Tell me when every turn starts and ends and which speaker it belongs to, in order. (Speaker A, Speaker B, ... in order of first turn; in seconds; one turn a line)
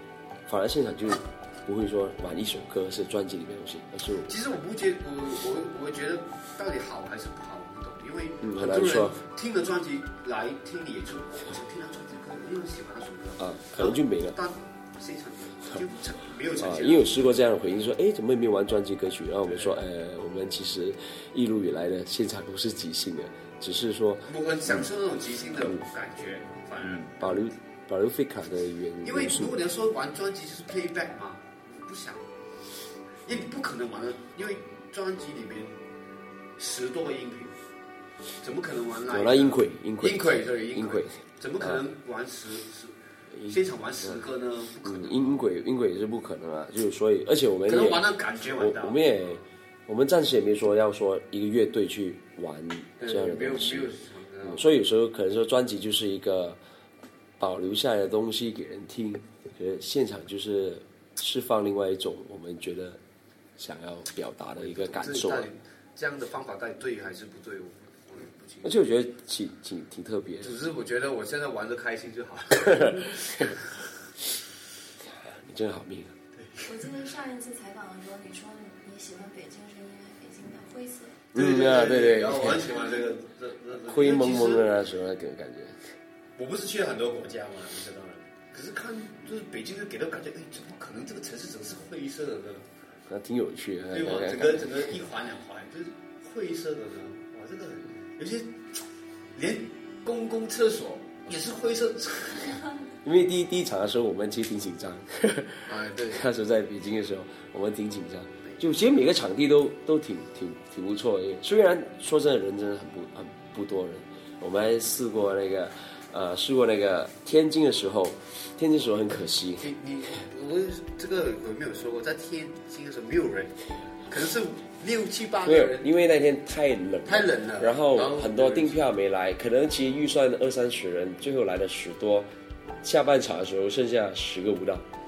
Speaker A: 0.5-4.3
Speaker B: 4.3-17.3
Speaker A: 8.4-9.2
Speaker A: 13.4-14.3
Speaker A: 16.6-24.8
Speaker B: 19.5-19.7
Speaker B: 24.3-27.4
Speaker A: 26.9-29.5
Speaker B: 29.0-32.3
Speaker B: 33.2-35.8
Speaker B: 36.6-37.6
Speaker B: 38.4-45.3
Speaker A: 39.1-41.8
Speaker A: 43.3-44.2
Speaker A: 44.8-56.6
Speaker B: 47.6-49.4
Speaker B: 53.0-54.6
Speaker A: 57.4-63.0
Speaker A: 63.6-65.5
Speaker B: 64.6-68.7
Speaker A: 68.6-70.5
Speaker B: 70.4-73.7
Speaker A: 72.6-73.6
Speaker A: 75.1-76.2
Speaker B: 76.3-76.7
Speaker C: 76.6-81.2
Speaker A: 81.3-82.7
Speaker B: 81.3-84.8
Speaker A: 83.8-85.8
Speaker B: 86.3-92.7
Speaker A: 93.1-94.7
Speaker B: 93.9-98.8
Speaker B: 99.3-102.7
Speaker A: 103.0-119.7
Speaker B: 105.7-106.2
Speaker B: 119.6-123.5
Speaker B: 124.0-125.9
Speaker A: 125.4-132.3
Speaker B: 127.0-128.8
Speaker A: 132.8-134.8